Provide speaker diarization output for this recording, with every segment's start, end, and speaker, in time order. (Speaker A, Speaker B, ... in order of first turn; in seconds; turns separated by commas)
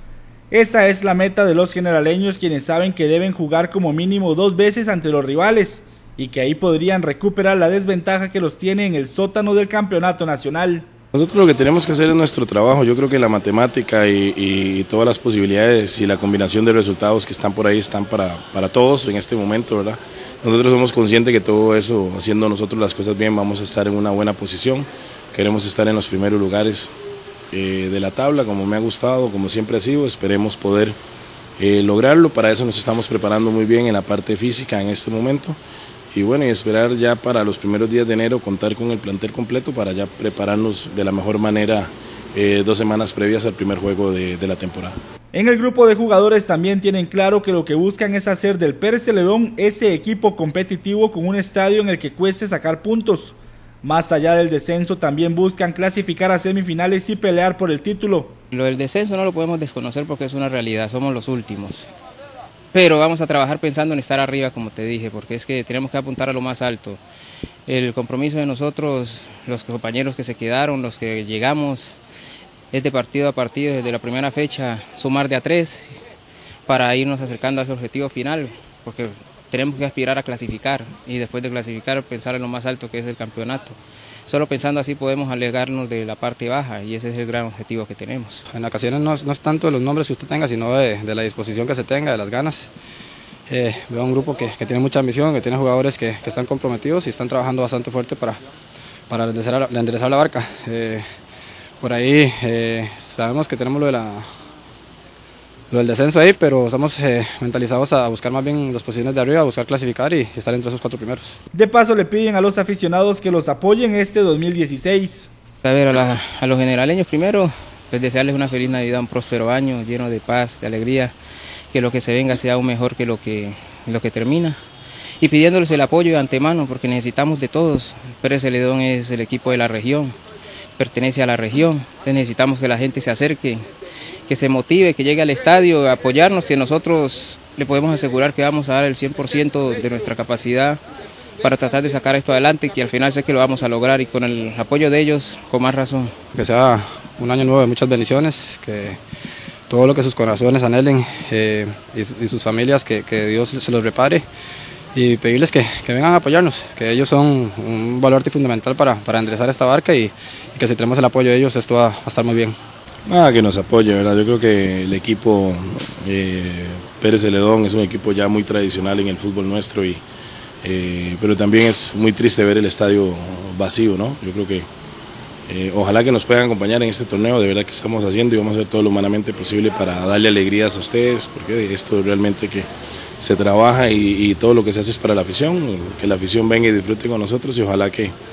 Speaker A: 0.5-10.9, Speaker B: 11.1-26.9, Speaker B: 27.5-30.9, Speaker B: 31.6-35.6, Speaker B: 36.1-45.0, Speaker A: 45.3-58.3, Speaker C: 58.5-61.9, Speaker C: 62.7-67.0, Speaker C: 67.7-72.0, Speaker C: 72.7-76.0, Speaker C: 76.7-88.4, Speaker D: 88.5-92.7, Speaker D: 93.5-98.4, Speaker D: 99.1-101.0, Speaker D: 101.8-104.2, Speaker D: 105.7-111.4, Speaker A: 111.5-115.3, Speaker C: 115.6-121.1, Speaker C: 121.7-124.6, Speaker C: 125.2-130.1, Speaker C: 130.8-133.6, Speaker C: 134.3-140.8, Speaker C: 141.4-146.1, Speaker D: 146.3-149.0, Speaker D: 149.7-154.2, Speaker D: 154.9-162.6, Speaker B: 163.1-170.0, Speaker B: 170.6-174.7, Speaker B: 175.5-182.7, Speaker B: 183.2-188.1